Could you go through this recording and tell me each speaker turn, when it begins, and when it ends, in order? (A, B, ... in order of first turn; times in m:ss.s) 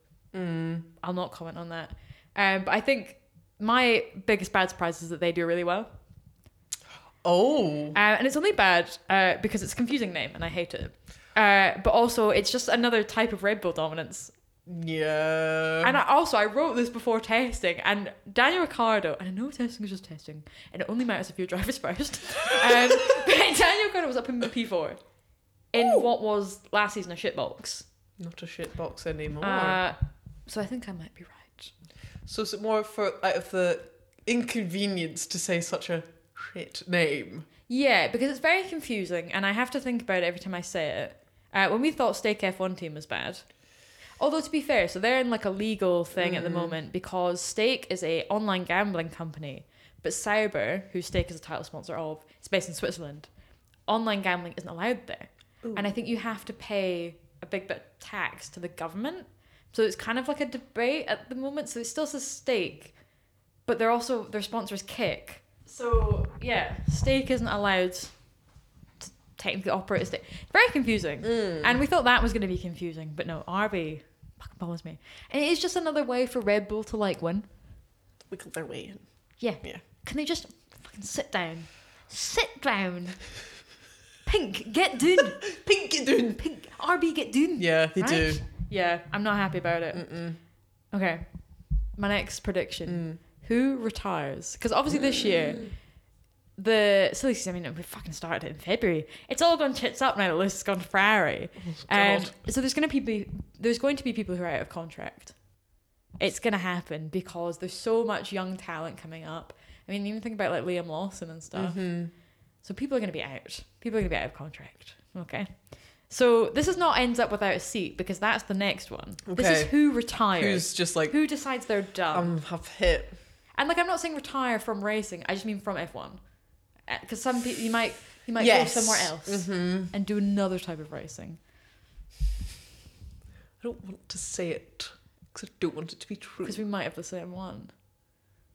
0:00.3-0:00.9 A
0:01.0-0:05.9 B
0:07.2-0:08.0 A
0:07.9-0:14.3 B
0:14.7-0:16.0 A
0:15.8-0:25.0 B
0:22.4-0:23.2 A
0:25.7-0:27.8 B
0:25.8-0:26.1 A
0:28.2-0:29.8 A
0:29.4-0:31.7 B
0:32.2-0:37.5 A
0:37.7-0:43.4 B
0:44.2-0:53.3 B
0:46.1-0:46.8 A
0:53.9-1:02.9 B
0:55.6-0:55.9 A
1:03.6-1:08.1 B
1:09.0-1:17.5 B
1:11.2-1:11.8 A
1:18.3-1:19.0 A
1:19.4-1:23.2 B
1:24.2-1:25.4 B
1:25.2-1:26.4 A
1:26.4-1:30.1 B
1:27.6-1:28.4 A
1:29.9-1:30.4 A
1:30.9-1:31.2 B
1:32.0-1:35.7 B
1:32.9-1:33.2 A
1:34.9-1:35.6 A
1:36.6-1:45.3 B
1:41.6-1:42.3 A
1:46.2-1:51.8 B
1:51.5-1:52.1 A
1:52.6-1:55.5 B
1:56.1-2:02.3 B
1:59.2-1:59.7 A
2:00.3-2:01.2 A
2:02.1-2:03.2 A
2:03.6-2:06.2 B
2:06.9-2:11.4 B
2:08.4-2:09.9 A
2:13.6-2:16.6 A
2:16.4-2:17.7 B